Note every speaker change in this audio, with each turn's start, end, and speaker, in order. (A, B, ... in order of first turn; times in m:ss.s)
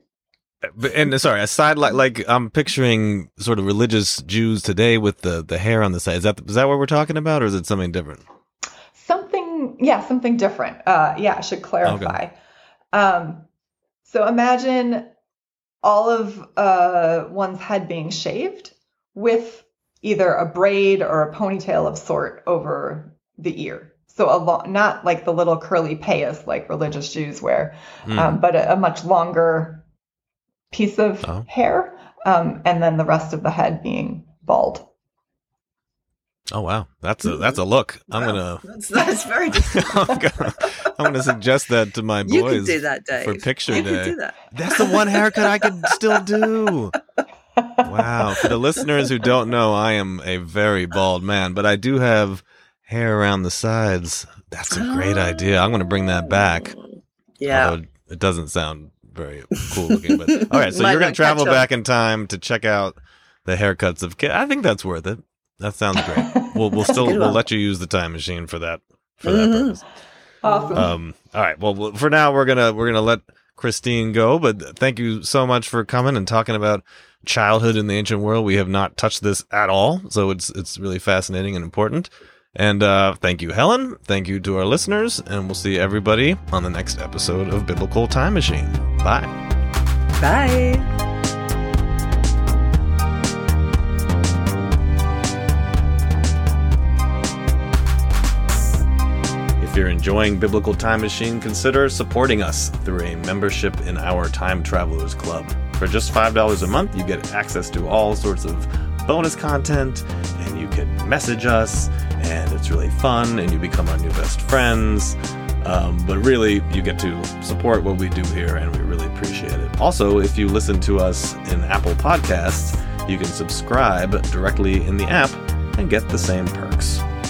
0:00.6-0:08.2 A
0:08.9-0:12.3 B
0:11.8-0:12.2 A
0:12.9-0:13.4 B
0:14.0-0:15.1 B
0:15.8-0:29.8 B
0:28.0-0:28.4 A
0:30.7-0:34.9 B
0:36.5-0:38.7 A
0:37.2-0:37.6 C
0:38.1-0:40.6 C
0:39.5-0:47.0 A
0:42.2-0:46.3 C
0:47.8-0:56.8 A
0:54.7-0:56.9 C
0:57.4-0:57.8 C
0:57.5-1:09.8 A
1:00.1-1:01.6 C
1:06.8-1:07.4 C
1:09.2-1:09.8 C
1:10.4-1:10.9 B
1:10.7-1:29.3 A
1:30.2-1:30.9 C
1:39.6-2:07.0 A